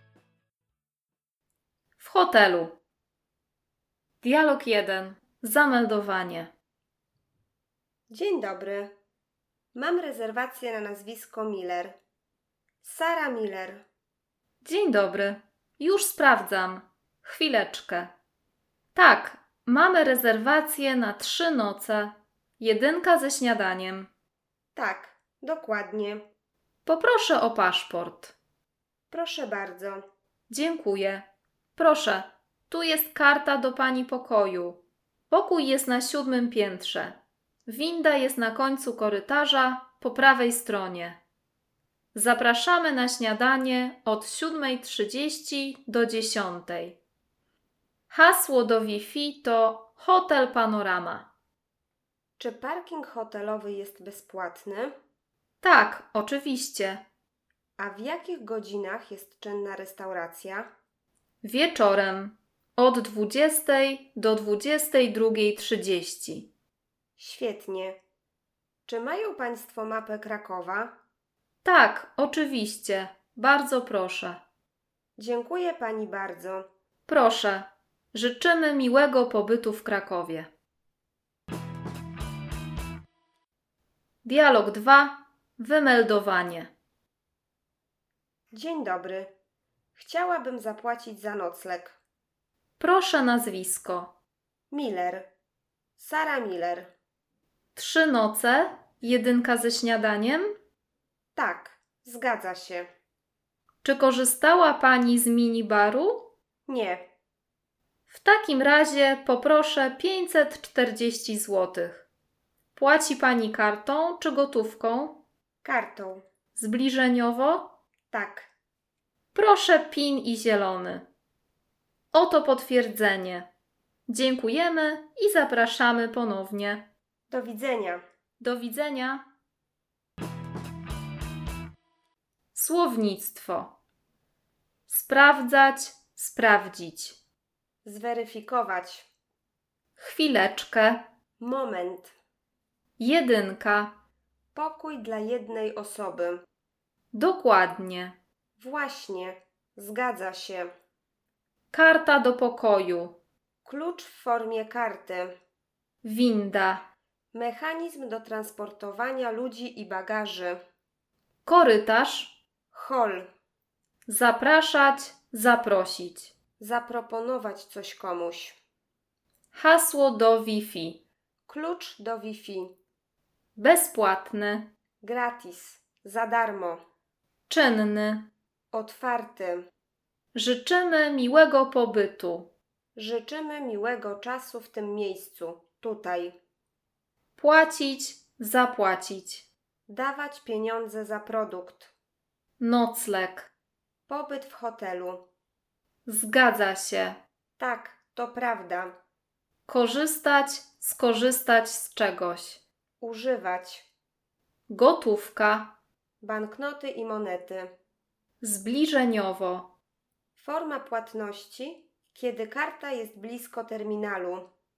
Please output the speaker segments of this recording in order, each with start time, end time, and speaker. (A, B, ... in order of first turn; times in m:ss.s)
0:02.0-0:02.8 A
0:04.2-0:06.5 A
0:08.1-0:08.9 B
0:09.7-0:12.0 B
0:12.8-0:13.8 B
0:14.6-0:18.1 A
0:18.9-0:24.1 A
0:24.8-0:26.2 B
0:26.8-0:28.3 A
0:29.1-0:30.0 B
0:30.5-0:41.2 A
0:42.1-0:47.0 A
0:48.1-0:51.3 A
0:52.4-0:54.9 B
0:55.6-0:57.0 A
0:57.8-1:00.7 B
1:01.4-1:06.5 A
1:07.2-1:08.0 B
1:08.8-1:10.9 B
1:11.6-1:14.4 A
1:15.2-1:16.7 B
1:17.1-1:20.5 A
1:24.2-1:26.7 A
1:28.5-1:29.3 B
1:29.9-1:32.0 B
1:32.8-1:34.1 A
1:34.7-1:35.3 B
1:36.0-1:36.9 B
1:37.7-1:40.6 A
1:41.3-1:42.9 B
1:43.8-1:46.3 A
1:46.7-1:47.0 B
1:48.1-1:52.1 A
1:52.7-1:55.2 A
1:55.6-1:56.2 B
1:56.6-1:57.8 A
1:58.1-1:58.5 B
1:59.3-2:01.1 A
2:02.1-2:03.5 A
2:04.1-2:06.9 A
2:07.3-2:08.0 B
2:08.4-2:09.2 A
2:12.5-2:13.7 A
2:14.9-2:17.2 A
2:17.8-2:19.1 B
2:20.0-2:21.1 A
2:21.4-2:22.1 B
2:23.0-2:24.0 A
2:24.5-2:26.4 B
2:27.1-2:28.2 A
2:28.6-2:30.7 B
2:31.7-2:33.2 A
2:33.6-2:35.3 B
2:36.0-2:36.9 A
2:37.3-2:40.6 B
2:41.4-2:42.4 A
2:42.7-2:43.3 B
2:44.1-2:46.3 A
2:46.6-2:48.6 B
2:49.5-2:51.0 A
2:51.5-2:52.7 B
2:53.6-2:54.7 A
2:55.0-2:56.8 B
2:57.5-2:58.3 A
2:58.7-2:59.7 B
3:00.3-3:02.5 A
3:03.0-3:06.4 B
3:07.4-3:09.5 A
3:09.9-3:11.9 B
3:12.6-3:13.5 A
3:14.1-3:15.2 B
3:16.0-3:17.2 A
3:17.6-3:18.9 B
3:19.6-3:22.6 A
3:23.0-3:23.9 B
3:24.7-3:25.8 A
3:26.2-3:27.7 B
3:28.4-3:29.7 A
3:30.4-3:34.5 B